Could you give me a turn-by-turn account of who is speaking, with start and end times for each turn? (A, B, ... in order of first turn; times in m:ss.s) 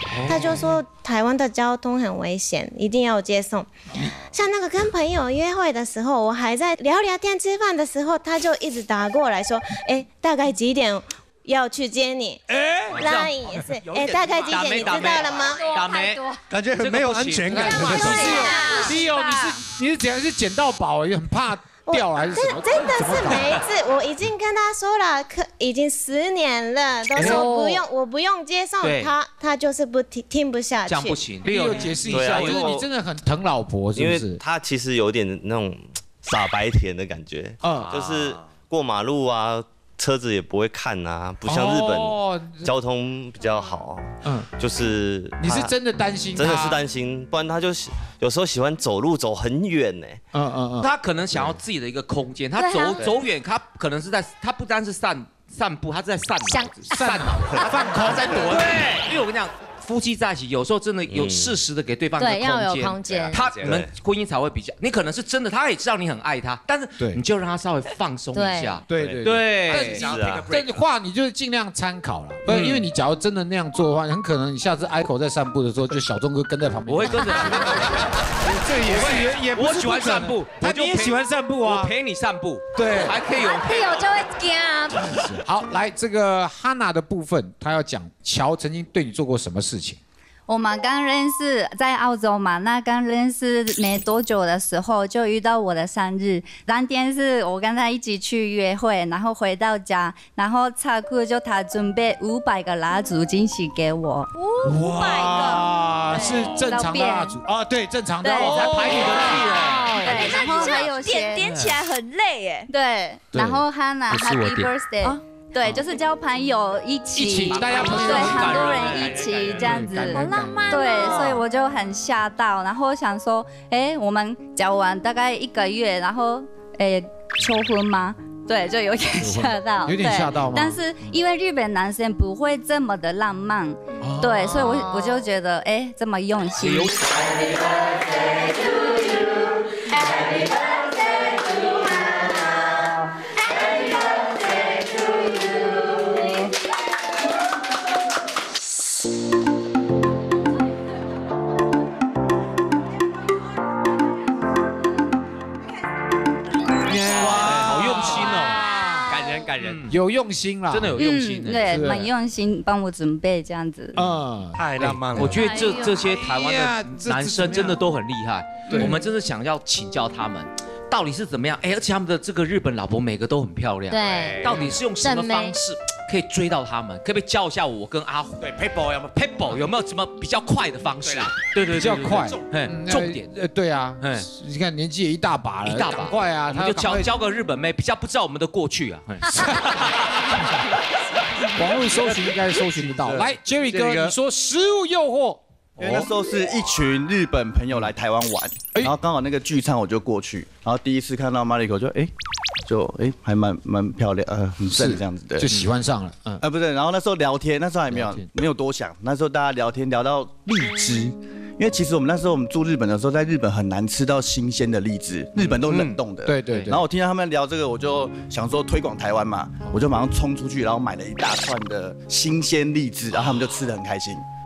0:00.2-0:03.7 A
0:04.3-0:12.4 A
0:12.9-0:16.2 B
0:12.9-0:15.7 A
0:15.4-0:16.4 C
0:16.5-0:18.4 D
0:16.8-0:18.4 B
0:17.4-0:23.6 E
0:17.8-0:19.0 C
0:21.9-0:31.2 A
0:27.2-0:27.6 B
0:27.2-0:27.4 E
0:28.8-0:29.1 B
0:30.8-0:32.7 B
0:31.4-0:34.4 E
0:32.1-0:32.8 F
0:33.9-0:45.8 F
0:37.6-0:37.9 E
0:37.7-0:38.3 B
0:41.4-0:42.7 E
0:45.4-0:46.8 E
0:46.3-0:50.2 F
0:50.3-0:50.9 E
0:50.8-0:57.6 B
0:52.6-0:53.1 C
0:56.4-0:58.4 C
0:56.9-0:58.8 E
0:57.7-0:58.9 G
0:58.2-1:10.1 B
1:01.1-1:01.6 F
1:02.2-1:03.4 C
1:03.1-1:03.8 G
1:08.3-1:08.8 C
1:08.9-1:21.9 E
1:08.9-1:10.8 G
1:10.0-1:10.5 F
1:12.5-1:12.8 B
1:16.9-1:18.1 B
1:17.3-1:17.7 C
1:18.8-1:24.2 B
1:22.7-1:23.2 E
1:23.2-1:25.2 C
1:25.0-1:30.0 E
1:30.5-1:44.3 H
1:44.3-1:46.6 I
1:44.6-1:50.0 E
1:46.6-1:47.4 H
1:48.4-1:51.7 B
1:49.3-1:50.9 C
1:49.5-1:52.7 I
1:50.0-1:51.6 H
1:52.7-2:16.9 H
1:54.3-1:54.6 G
1:57.1-1:58.7 E
1:57.4-1:59.8 B
1:59.6-2:00.6 E
2:00.1-2:01.4 I
2:09.2-2:10.8 E
2:14.0-2:14.8 E
2:16.6-2:17.4 B
2:36.9-2:39.1 E
2:37.1-2:39.9 G
2:37.1-2:38.6 B
2:39.4-2:39.9 B
2:39.9-2:41.0 E
2:40.7-2:41.8 B
2:41.0-2:44.0 H
2:41.7-2:42.1 E
2:43.9-2:47.8 E
2:44.5-2:45.5 D
2:45.2-2:58.4 B
2:45.4-2:45.9 I
2:48.7-2:49.0 E
2:53.9-2:55.6 C
2:54.0-2:54.7 G
2:58.4-2:59.7 G
2:59.1-3:03.3 B
3:01.0-3:01.4 G
3:01.8-3:07.1 E
3:04.0-3:04.2 B
3:05.6-3:10.2 B
3:09.2-3:09.6 E
3:11.5-3:16.1 E
3:11.9-3:14.1 D
3:15.8-3:22.1 J
3:22.6-3:25.5 J
3:24.7-3:26.4 E
3:26.4-3:44.2 J
3:27.9-3:28.3 E
3:35.7-3:36.8 E